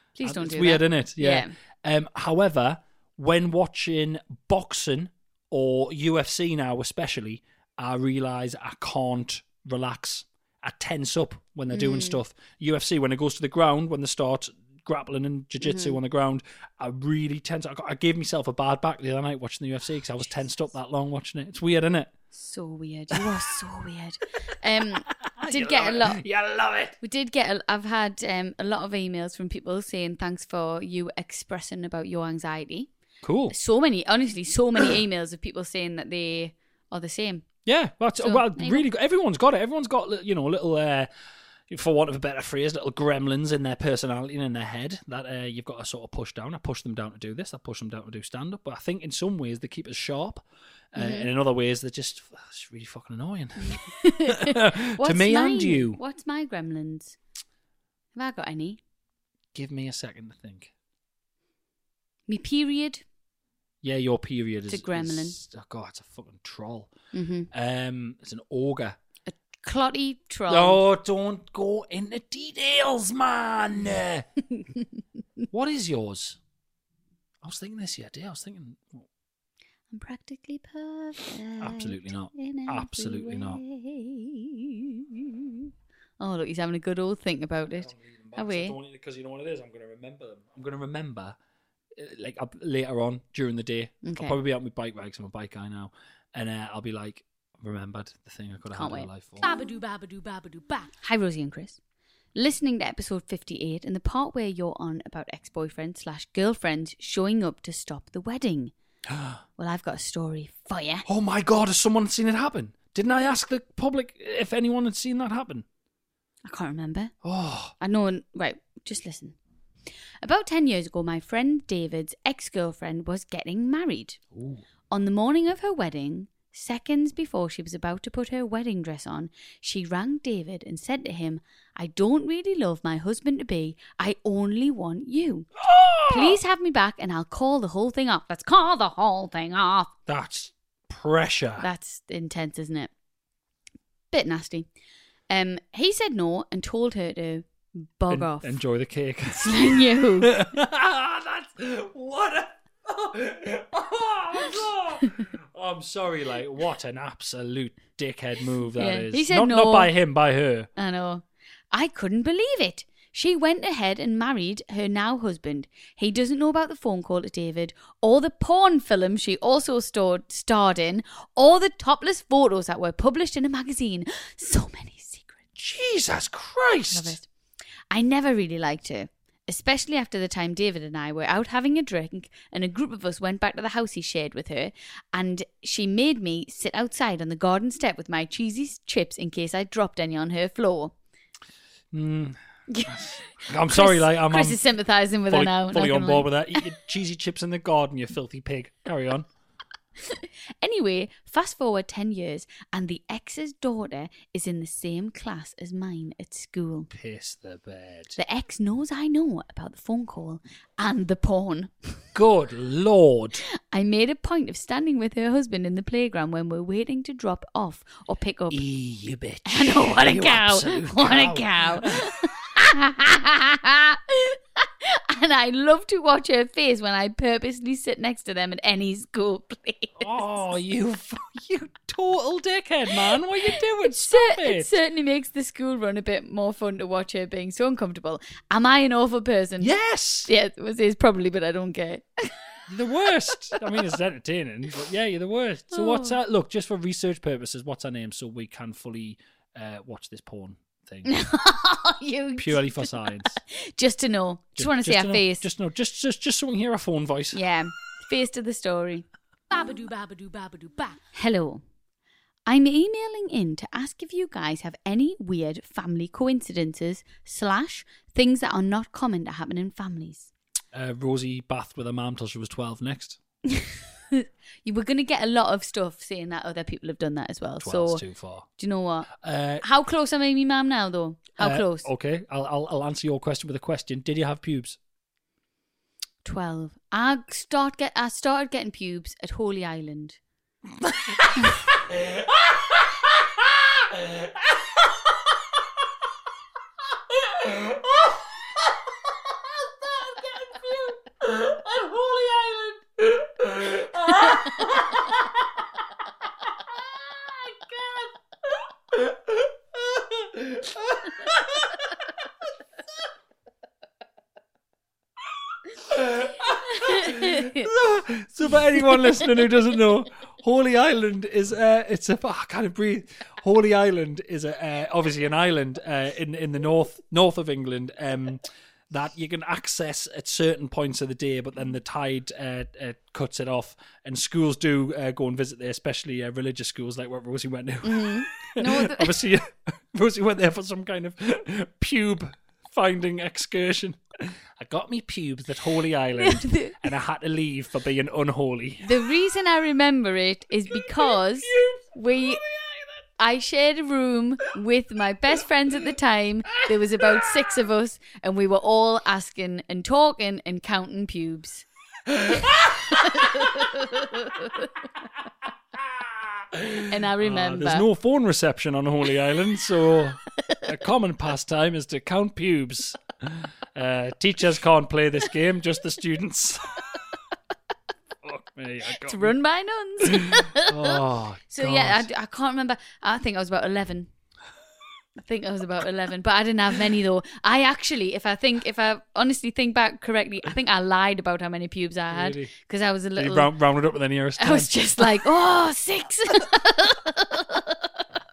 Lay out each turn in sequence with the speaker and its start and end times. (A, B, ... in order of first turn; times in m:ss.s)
0:00.2-0:01.5 A
0:00.2-0:22.1 B
0:11.7-0:12.2 A
0:15.6-0:16.0 A
0:22.3-0:26.2 A
0:25.0-0:27.0 B
0:27.0-0:32.9 A
0:33.2-0:33.5 B
0:33.5-0:37.4 A
0:37.6-0:41.1 B
0:38.2-0:38.8 A
0:41.7-0:50.4 B
0:50.9-0:56.0 B
0:51.0-0:51.3 A
0:53.7-0:57.2 A
0:58.1-0:58.8 A
0:59.5-1:00.7 B
1:02.3-1:03.0 A
1:03.8-1:06.9 B
1:04.7-1:05.4 A
1:07.1-1:07.5 A
1:07.5-1:09.0 B
1:09.3-1:10.8 A
1:10.5-1:14.2 B
1:15.5-1:16.4 B
1:17.4-1:19.0 B
1:19.9-1:25.7 A
1:21.6-1:23.6 B
1:26.2-1:28.8 A
1:27.7-1:31.4 B
1:32.0-1:39.4 B
1:34.0-1:34.4 A
1:38.7-1:39.1 A
1:39.4-1:40.9 C
1:41.0-1:41.8 A
1:42.3-1:48.7 A
1:49.1-1:49.4 B
1:49.6-1:51.0 A
1:51.1-1:55.6 B
1:56.4-1:57.1 A
1:57.2-1:57.7 B
1:57.8-1:59.4 A
2:00.2-2:04.2 A
2:04.3-2:04.6 B
2:04.9-2:15.5 A
2:15.6-2:16.4 B
2:16.1-2:19.9 A
2:20.1-2:21.7 B
2:21.6-2:22.9 A
2:24.1-2:24.7 A
2:25.3-2:28.6 A
2:28.1-2:40.7 B
2:29.3-2:30.4 A
2:38.8-2:39.9 A
2:40.8-2:55.4 A
2:55.6-2:57.2 B
2:56.9-2:57.2 A
2:57.9-3:10.9 A
3:11.9-3:14.6 B
3:12.7-3:12.9 A
3:13.7-3:16.6 A
3:15.3-3:19.3 B
3:20.1-3:26.9 A
3:26.9-3:28.2 B
3:28.2-3:31.9 A
3:32.1-3:33.4 B
3:33.7-3:38.6 A
3:38.5-3:42.2 B
3:39.4-3:50.2 A
3:50.0-3:54.7 B
3:53.1-3:59.7 A
3:59.6-4:00.3 B
4:00.3-4:02.3 A
4:02.7-4:11.1 B
4:05.7-4:06.2 A
4:11.0-4:15.4 A
4:12.4-4:13.4 B
4:14.6-4:17.4 B
4:17.3-4:19.0 A
4:19.5-4:21.0 C
4:21.1-4:21.6 A
4:22.5-4:30.3 A
4:30.7-4:33.2 B
4:33.5-4:38.0 A
4:37.6-4:38.5 B
4:38.6-4:39.1 A
4:39.1-4:39.6 B
4:39.6-4:41.9 A
4:41.4-4:44.8 B
4:46.2-4:50.2 A
4:50.8-4:51.5 B
4:57.4-4:57.8 B
5:00.0-5:05.0 B
5:04.1-5:04.5 A
5:09.9-5:11.6 B
5:15.9-5:48.9 B
5:16.7-5:17.7 A
5:37.8-5:39.1 A
5:46.2-5:46.8 A
5:48.8-5:52.4 A
5:50.7-5:52.9 B
5:53.2-6:01.6 A
5:57.0-5:57.3 B
6:02.1-6:03.2 B
6:02.9-6:04.7 A
6:06.4-6:17.0 B
6:06.9-6:07.8 A
6:18.2-6:19.4 B
6:19.0-6:21.0 A
6:20.0-6:22.1 B
6:21.5-6:24.1 A
6:25.2-6:33.5 A
6:32.1-6:32.5 B
6:33.2-6:35.2 B
6:34.4-6:37.8 A